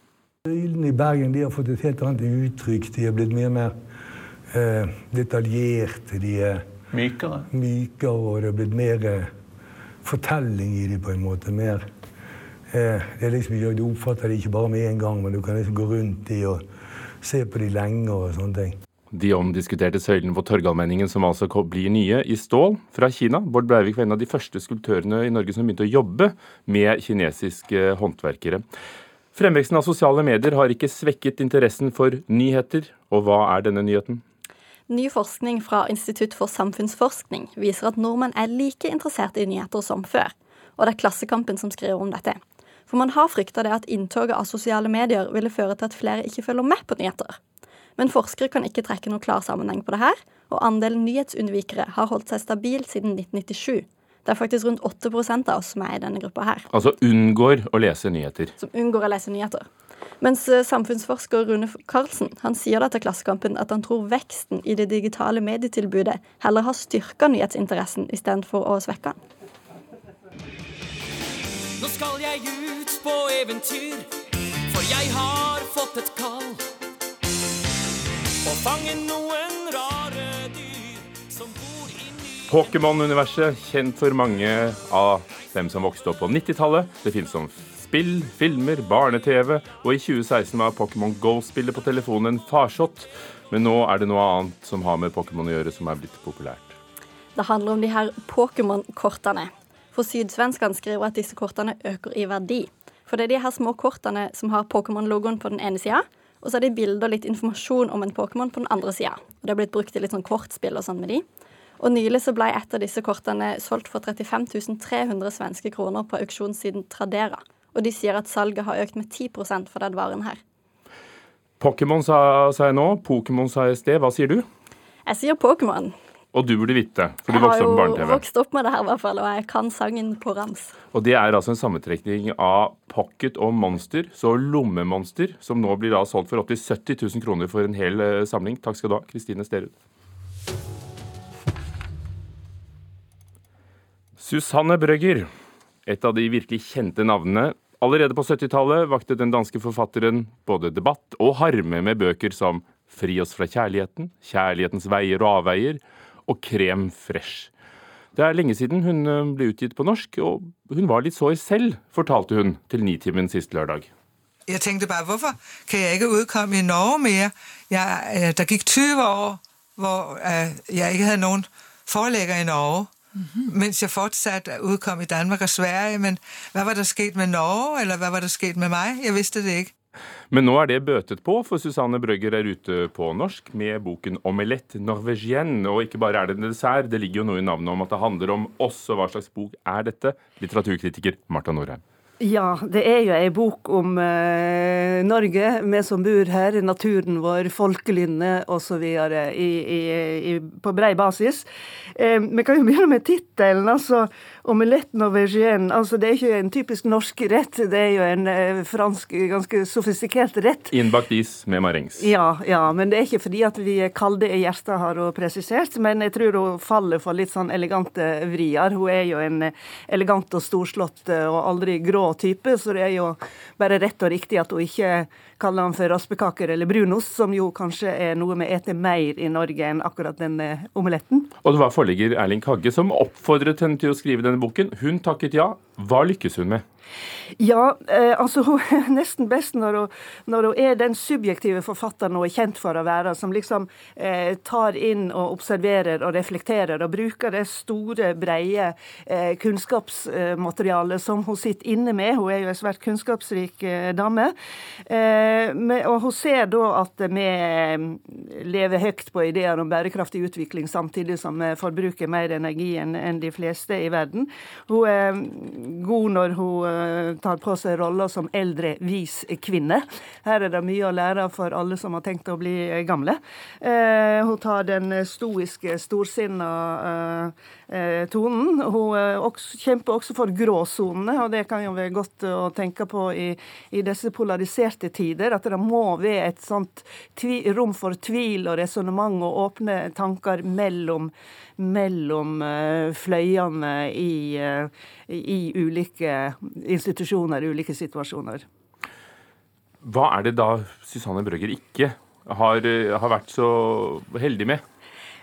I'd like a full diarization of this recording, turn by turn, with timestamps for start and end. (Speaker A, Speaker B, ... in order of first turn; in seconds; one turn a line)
Speaker A: 0.5-3.7
Speaker A: 4.5-6.6
Speaker A: 7.5-9.3
Speaker A: 10.0-11.9
Speaker A: 12.7-16.6
Speaker A: 17.2-18.8
Speaker B: 19.1-28.6
Speaker B: 29.3-34.2
Speaker C: 34.9-47.4
Speaker C: 48.0-56.6
Speaker B: 56.7-58.5
Speaker C: 58.6-59.7
Speaker C: 60.2-69.2
Speaker D: 71.8-74.1
Speaker D: 74.7-76.6
Speaker D: 78.5-82.2
Speaker B: 82.5-96.8
Speaker C: 97.3-111.2
Speaker C: 111.8-120.4
Speaker B: 121.6-124.5
Speaker C: 125.0-125.9
Speaker B: 126.3-128.2
Speaker C: 127.3-130.7
Speaker B: 130.9-139.7
Speaker B: 144.2-145.2
Speaker B: 145.8-157.5
Speaker B: 158.2-163.9
Speaker E: 164.5-179.7
Speaker B: 180.3-191.8
Speaker F: 192.2-201.4
Speaker F: 202.0-210.7
Speaker B: 210.7-212.1
Speaker F: 212.0-231.3
Speaker B: 231.4-236.6
Speaker F: 237.4-254.3
Speaker F: 254.9-298.4
Speaker B: 299.8-304.6